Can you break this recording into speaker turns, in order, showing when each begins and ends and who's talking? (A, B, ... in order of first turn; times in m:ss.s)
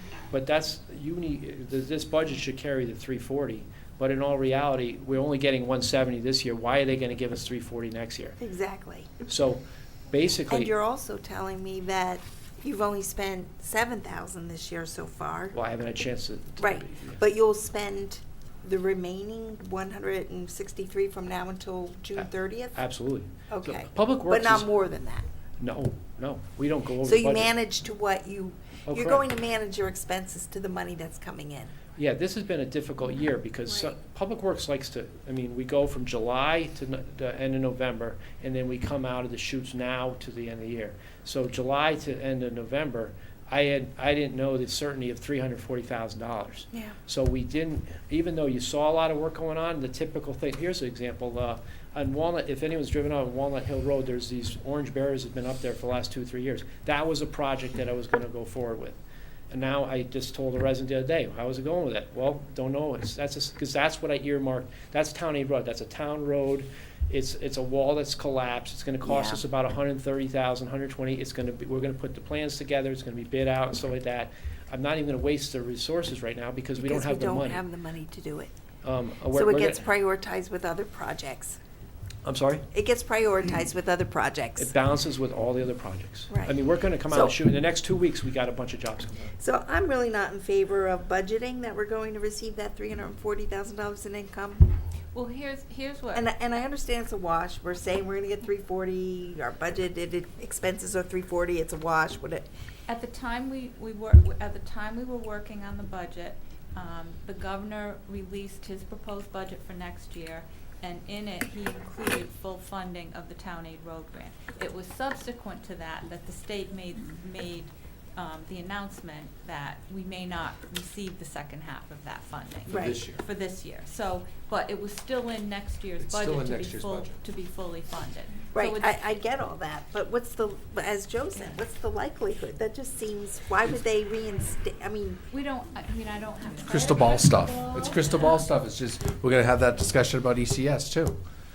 0:00.3-0:08.4 A
0:08.4-0:09.1 B
0:09.2-0:10.7 A
0:10.5-0:15.5 B
0:15.5-0:17.2 A
0:16.6-0:22.9 B
0:22.2-0:24.7 A
0:23.5-0:25.2 B
0:25.6-0:27.5 A
0:27.0-0:31.8 B
0:28.8-0:29.2 A
0:32.0-0:59.0 A
0:59.5-1:17.6 A
1:09.0-1:09.4 B
1:16.8-1:18.5 B
1:18.8-1:19.8 A
1:19.3-1:21.6 B
1:22.2-1:22.6 A
1:22.7-1:24.7 B
1:24.6-1:29.3 A
1:26.3-1:26.6 B
1:27.1-1:27.4 B
1:29.4-1:34.7 B
1:35.1-1:36.3 C
1:36.1-1:42.5 B
1:42.9-2:09.0 C
2:02.6-2:03.2 D
2:02.7-2:03.0 B
2:06.0-2:07.2 D
2:08.5-2:15.2 B
2:15.3-2:18.5 C
2:16.6-2:21.2 D